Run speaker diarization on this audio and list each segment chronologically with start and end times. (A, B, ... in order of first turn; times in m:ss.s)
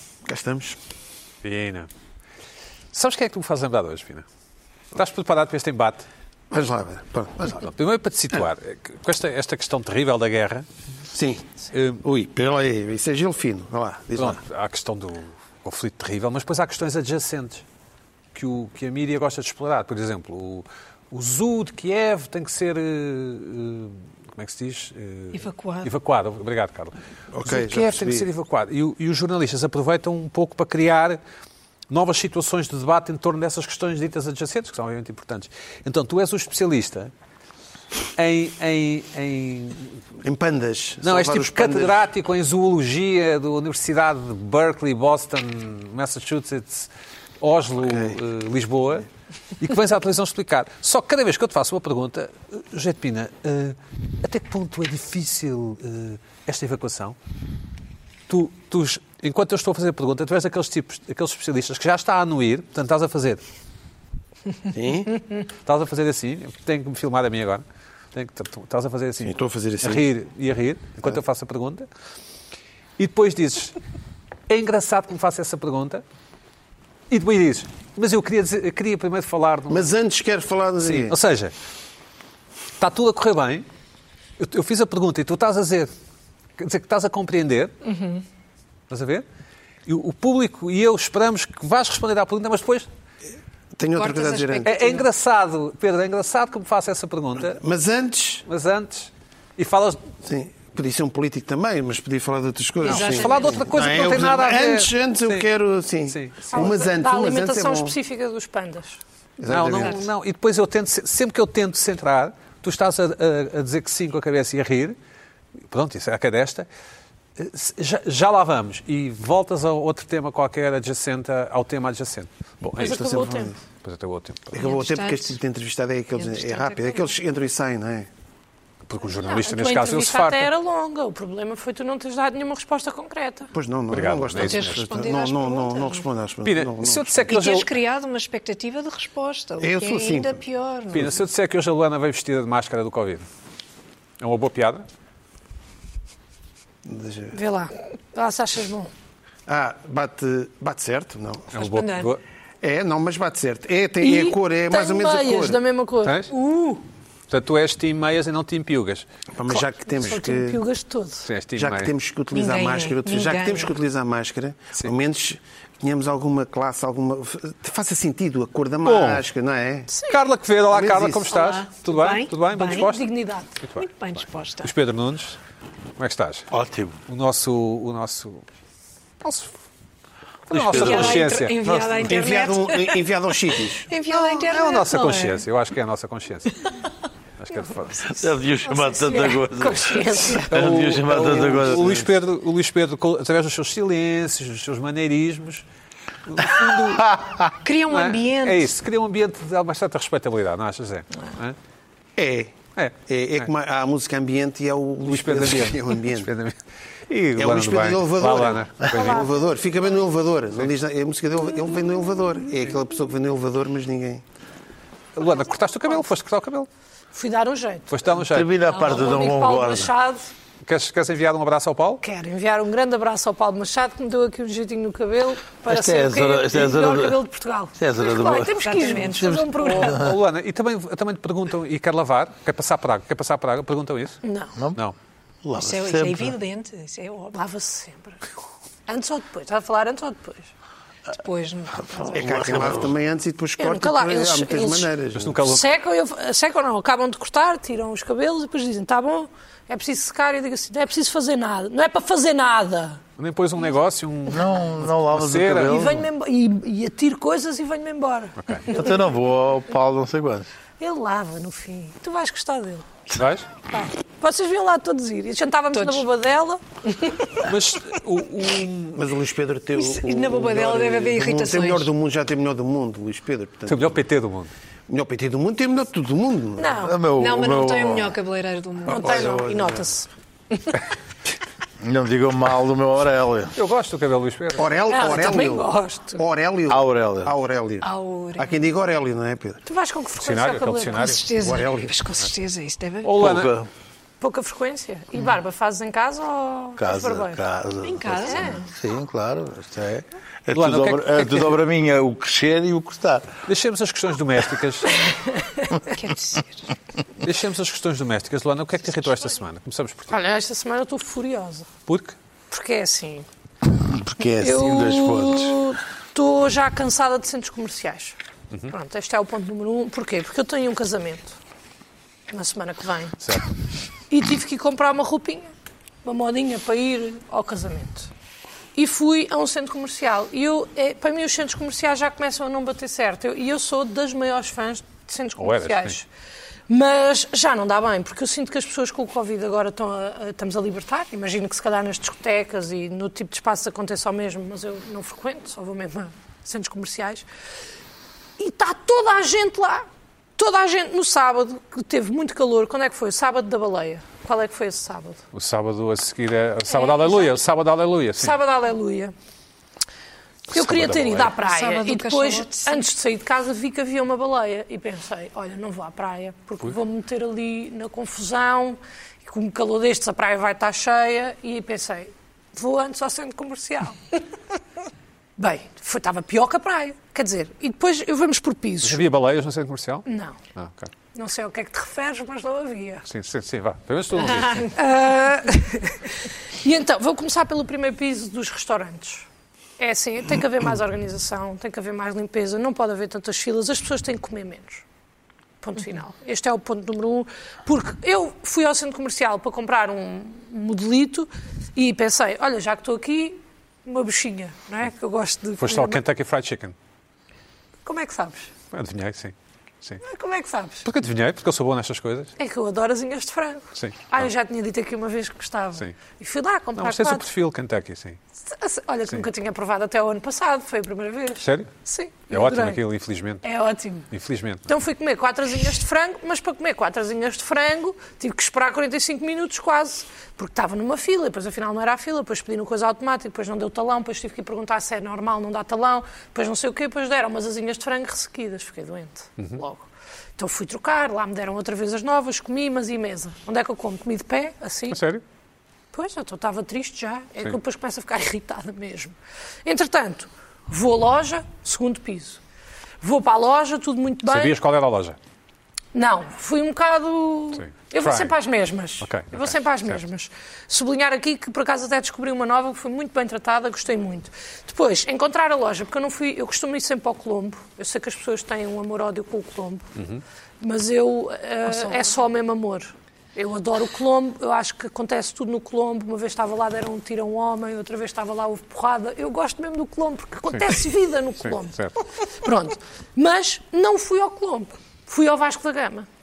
0:00.2-0:00.8 A
0:01.4-0:01.9 B
0:02.9-0:04.2 B
0:04.9-0:06.0 B
0:06.5-0:07.7 A
0:07.7-0:10.6 B
0:11.1-0:11.4 A
0:11.7-0:12.0 B
0:12.0-0:14.4 A
0:14.2-0:17.6 B
0:18.3-0:31.2 B
0:25.3-0:25.9 C
0:27.3-0:28.3 A
0:31.9-0:37.1 B
0:38.2-0:40.0 B
0:40.2-0:42.0 A
0:41.0-0:49.0 B
0:47.8-0:48.2 A
0:49.6-0:57.2 B
0:58.3-1:03.4 B
1:04.7-1:05.1 A
1:05.6-1:11.8 B
1:09.2-1:10.1 A
1:13.0-1:13.8 B
1:14.5-1:16.0 B
1:17.1-1:19.9 B
1:19.7-1:21.2 A
1:20.8-1:21.5 B
1:22.8-1:23.6 B
1:24.4-1:25.9 B
1:26.6-1:27.9 B
1:27.9-1:28.2 C
1:28.9-1:29.2 B
1:29.8-1:32.9 B
1:33.8-1:34.7 A
1:34.0-1:35.0 C
1:34.6-1:37.6 B
1:37.4-1:38.4 A
1:38.4-1:40.0 B
1:40.2-1:47.9 A
1:42.8-1:45.4 B
1:42.8-1:43.6 C
1:46.1-1:46.6 B
1:46.5-1:49.0 D
1:49.4-1:50.1 A
1:49.5-1:55.0 B
1:55.7-1:56.7 B
1:57.4-2:03.3 B
2:02.8-2:03.5 A
2:02.8-2:03.5 D
2:03.8-2:04.6 B
2:04.5-2:08.1 A
2:04.6-2:05.3 C
2:08.9-2:10.5 B
2:09.1-2:13.5 D
2:13.5-2:17.3 A
2:13.9-2:14.8 B
2:14.4-2:16.0 C
2:16.4-2:17.7 B
2:17.3-2:21.1 C
2:19.6-2:20.4 A
2:20.9-2:23.2 B
2:24.2-2:24.8 B
2:26.8-2:27.4 A
2:27.3-2:28.9 D
2:29.5-2:31.7 A
2:31.5-2:32.2 B
2:31.7-2:32.1 C
2:32.6-2:35.6 A
2:34.0-2:36.2 D
2:36.0-2:36.3 B
2:36.3-2:36.8 C
2:37.3-2:39.0 B
2:39.3-2:40.6 A
2:40.0-2:41.2 D
2:41.2-2:41.9 B
2:41.6-2:49.9 A
2:42.3-2:43.7 C
2:48.8-2:49.2 B
2:49.9-2:50.2 D
2:50.1-2:53.0 B
2:50.7-2:51.4 A
2:51.3-2:52.9 C
2:52.7-2:53.6 D
2:53.6-2:55.4 B
2:53.8-2:54.7 C
2:56.0-2:56.5 B
2:56.5-2:57.0 E
2:57.1-2:58.4 B
2:59.2-2:59.5 B
3:00.5-3:02.0 B
3:00.5-3:01.3 E
3:00.6-3:03.0 C
3:02.0-3:03.9 A
3:03.9-3:05.4 C
3:04.1-3:06.6 B
3:07.4-3:08.3 B
3:08.1-3:12.1 E
3:08.8-3:10.5 D
3:10.5-3:15.6 B
3:16.2-3:17.2 B
3:17.0-3:17.3 E
3:17.6-3:18.7 C
3:17.9-3:21.6 B
3:22.2-3:26.3 A
3:22.7-3:23.5 B
3:25.0-3:29.3 B
3:27.4-3:34.2 A
3:35.2-3:36.7 B
3:37.1-3:37.9 D
3:37.9-3:38.5 B
3:38.2-3:39.9 E
3:38.7-3:40.3 D
3:38.7-3:39.0 C
3:40.6-3:42.0 B
3:42.0-3:50.1 D
3:45.6-3:47.2 E
3:47.8-3:50.2 E
3:48.6-3:49.7 C
3:49.6-3:54.2 B
3:54.2-3:54.5 D
3:55.4-3:56.3 E
3:55.6-3:57.4 C
3:57.3-3:58.2 D
3:58.9-4:00.5 D
4:01.1-4:02.2 C
4:02.0-4:02.9 E
4:02.1-4:05.4 A
4:03.6-4:04.9 D
4:05.1-4:05.7 B
4:05.4-4:13.0 D
4:13.2-4:15.9 B
4:14.3-4:16.0 E
4:15.6-4:18.9 D
4:18.4-4:18.7 B
4:18.7-4:20.5 E
4:20.8-4:23.0 D
4:23.1-4:23.5 B
4:23.7-4:27.3 D
4:25.7-4:26.0 C
4:27.4-4:29.0 B
4:29.0-4:34.0 A
4:29.8-4:31.9 C
4:33.7-4:34.5 B
4:34.9-4:36.9 A
4:36.6-4:37.0 D
4:36.8-4:38.2 E
4:37.1-4:39.1 C
4:38.8-4:40.1 D
4:38.9-4:39.8 A
4:39.0-4:39.6 E
4:41.8-4:43.5 E
4:43.5-4:44.7 B
4:44.6-4:49.6 A
4:44.9-4:46.2 D
4:46.7-4:47.3 E
4:47.8-4:48.6 C
4:49.6-4:51.2 D
4:50.2-4:51.2 B
4:51.0-4:53.2 C
4:51.4-4:51.9 A
4:53.0-4:53.5 B
4:53.2-4:53.7 E
4:54.2-4:57.4 D
4:56.8-5:03.3 E
4:57.8-4:58.6 C
4:58.3-4:58.6 D
5:00.5-5:01.6 B
5:03.4-5:05.0 B
5:05.7-5:06.7 C
5:07.2-5:10.1 B
5:10.1-5:11.7 D
5:11.9-5:12.2 B
5:12.5-5:13.3 D
5:13.7-5:15.6 E
5:14.4-5:18.2 D
5:18.7-5:21.4 D
5:22.3-5:23.2 D
5:23.2-5:23.5 B
5:24.1-5:25.5 D
5:26.0-5:28.1 D
5:28.7-5:36.0 D
5:35.4-5:36.0 B
5:36.7-5:47.2 D
5:48.4-5:49.8 D
5:50.4-5:55.2 D
5:55.3-5:58.4 B
5:56.7-5:57.4 D
5:58.2-5:59.1 D
6:00.5-6:01.3 B
6:00.5-6:14.2 D
6:01.4-6:02.8 C
6:15.4-6:19.0 D
6:18.8-6:20.9 B
6:20.0-6:20.4 D
6:21.1-6:23.0 D
6:23.0-6:24.7 B
6:24.2-6:24.7 C
6:24.7-6:29.2 D
6:29.8-6:34.8 D
6:35.6-6:46.0 D
6:45.6-6:46.7 B
6:47.8-6:48.5 D
6:48.7-6:50.0 B
6:50.0-6:50.8 D
6:50.8-6:52.3 B
6:52.4-6:57.3 D
6:53.7-6:54.2 B
6:56.8-6:58.2 B
6:58.4-7:02.8 D
7:01.4-7:01.7 B
7:02.3-7:03.4 B
7:03.4-7:04.1 D
7:04.1-7:04.7 B
7:04.7-7:25.0 D
7:24.9-7:25.2 B
7:25.9-7:32.4 D
7:33.0-7:34.6 D
7:34.2-7:35.2 B
7:35.9-7:49.8 D
7:37.5-7:38.3 B
7:39.0-7:40.0 B
7:50.0-7:50.2 B
7:50.6-8:06.1 D
7:51.7-7:52.0 C
8:01.4-8:02.0 B